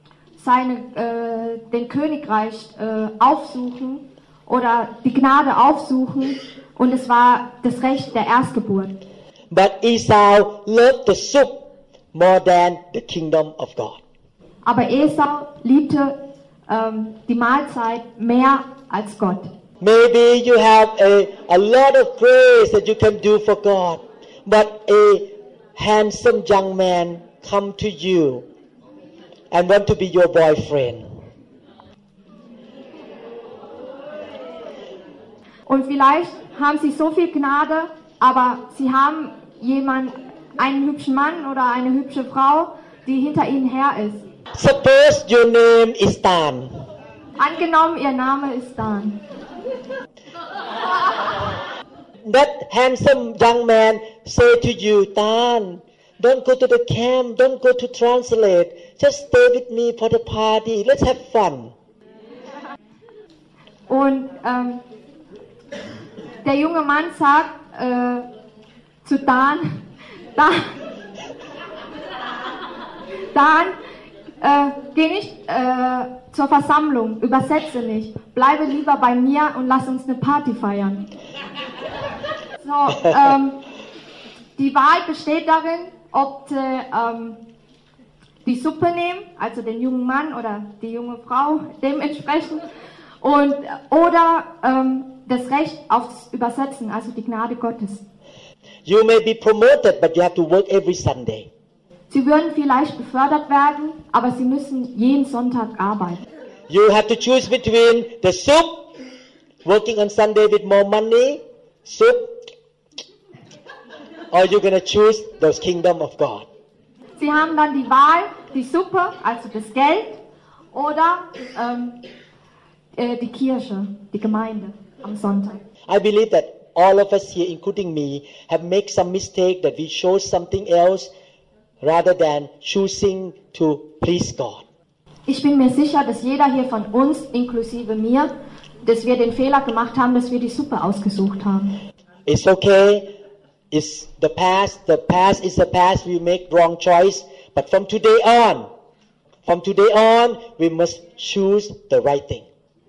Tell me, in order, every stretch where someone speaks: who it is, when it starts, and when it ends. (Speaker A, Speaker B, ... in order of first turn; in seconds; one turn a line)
Speaker A: 0.4-9.0
Speaker B: 9.5-14.0
Speaker A: 14.6-19.5
Speaker B: 19.8-28.4
Speaker B: 29.5-31.2
Speaker A: 35.7-44.2
Speaker B: 44.5-46.9
Speaker A: 47.4-49.2
Speaker B: 52.2-61.7
Speaker A: 63.9-64.8
Speaker A: 66.4-68.3
Speaker A: 69.0-69.8
Speaker A: 70.3-70.7
Speaker A: 73.3-73.8
Speaker A: 74.4-81.1
Speaker A: 82.6-83.6
Speaker A: 84.6-87.4
Speaker A: 88.4-92.6
Speaker A: 93.2-98.0
Speaker B: 98.8-101.5
Speaker A: 102.1-106.2
Speaker B: 106.7-108.9
Speaker B: 109.6-112.4
Speaker B: 114.3-116.5
Speaker A: 117.2-120.2
Speaker A: 120.7-122.0
Speaker A: 122.9-125.6
Speaker B: 125.9-131.1
Speaker B: 131.8-134.6
Speaker A: 135.3-141.8
Speaker B: 142.3-143.1
Speaker B: 143.7-148.7
Speaker B: 149.4-152.4